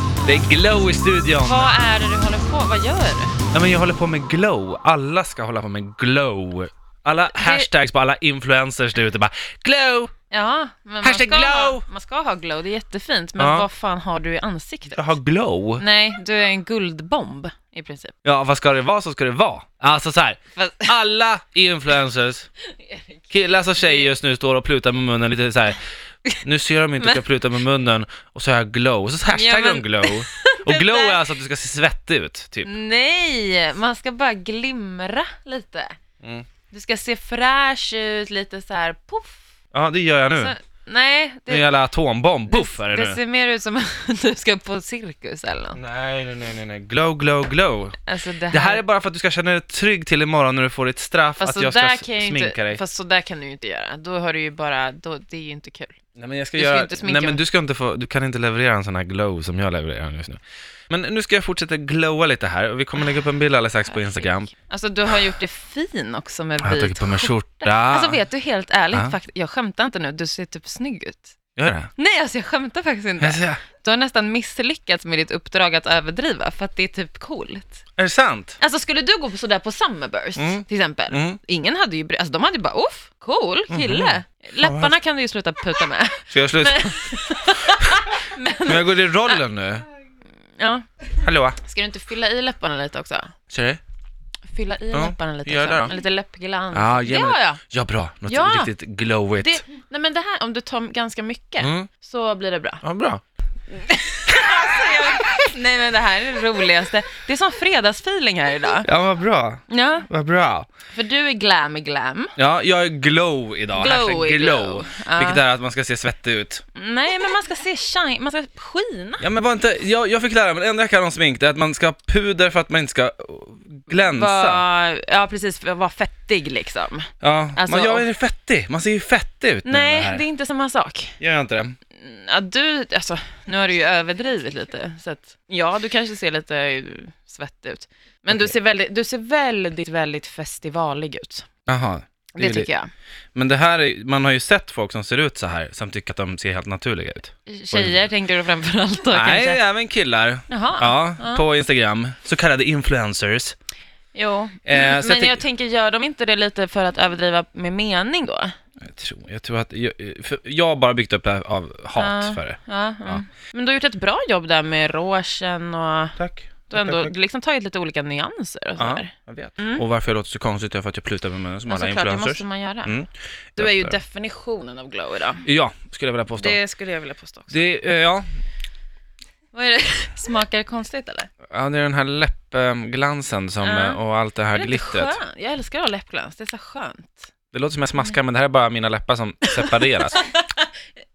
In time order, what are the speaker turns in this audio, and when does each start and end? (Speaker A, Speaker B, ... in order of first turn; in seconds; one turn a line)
Speaker A: 0.2-1.7
Speaker B: 1.4-3.4
Speaker A: 3.5-10.1
Speaker B: 7.3-7.7
Speaker B: 10.3-15.1
Speaker A: 11.0-11.8
Speaker A: 13.4-13.7
Speaker A: 14.9-15.8
Speaker B: 15.8-18.1
Speaker A: 18.2-22.5
Speaker B: 20.6-20.9
Speaker B: 22.7-24.1
Speaker A: 23.3-25.8
Speaker A: 26.4-32.7
Speaker B: 29.3-31.2
Speaker B: 32.6-36.0
Speaker B: 36.7-39.4
Speaker A: 39.7-40.5
Speaker B: 40.3-41.7
Speaker A: 41.5-43.2
Speaker B: 42.5-45.8
Speaker A: 45.8-48.0
Speaker B: 48.0-48.8
Speaker A: 48.5-52.8
Speaker B: 51.4-56.0
Speaker A: 56.2-64.5
Speaker B: 56.5-57.4
Speaker B: 63.9-71.3
Speaker A: 66.6-68.2
Speaker A: 71.6-71.9
Speaker B: 72.0-77.8
Speaker A: 73.2-73.6
Speaker A: 78.0-78.6
Speaker B: 78.6-89.4
Speaker A: 80.3-81.4
Speaker A: 83.7-84.9
Speaker A: 86.3-87.2
Speaker A: 87.7-88.0
Speaker A: 88.6-89.8
Speaker B: 90.6-90.9
Speaker A: 91.2-91.6
Speaker B: 91.6-93.3
Speaker A: 93.5-93.8
Speaker B: 94.5-97.6
Speaker A: 94.9-95.9
Speaker A: 96.7-99.6
Speaker B: 98.3-98.7
Speaker B: 99.4-102.8
Speaker A: 101.6-101.9
Speaker A: 102.8-103.2
Speaker B: 103.7-108.9
Speaker A: 104.5-104.8
Speaker A: 108.8-110.7
Speaker B: 109.7-110.1
Speaker B: 110.9-112.3
Speaker A: 112.4-116.6
Speaker B: 113.7-115.4
Speaker B: 116.7-119.2
Speaker A: 119.2-124.6
Speaker B: 123.9-128.1
Speaker A: 127.2-130.2
Speaker B: 129.6-131.1
Speaker A: 131.2-131.7
Speaker B: 131.9-141.5
Speaker A: 141.7-142.7
Speaker B: 142.3-142.9
Speaker A: 143.3-148.0
Speaker B: 147.5-149.6
Speaker A: 149.1-153.6
Speaker B: 150.5-151.4
Speaker B: 154.1-158.5
Speaker A: 154.6-155.4
Speaker A: 158.8-163.2
Speaker B: 161.9-169.8
Speaker A: 166.2-167.1
Speaker A: 168.8-173.9
Speaker B: 171.7-172.9
Speaker B: 173.6-175.4
Speaker A: 175.4-176.6
Speaker B: 176.4-177.6
Speaker A: 177.5-178.2
Speaker B: 179.5-181.3
Speaker A: 181.5-185.2
Speaker B: 183.6-184.0
Speaker B: 184.5-187.3
Speaker A: 187.5-190.2
Speaker B: 189.6-190.7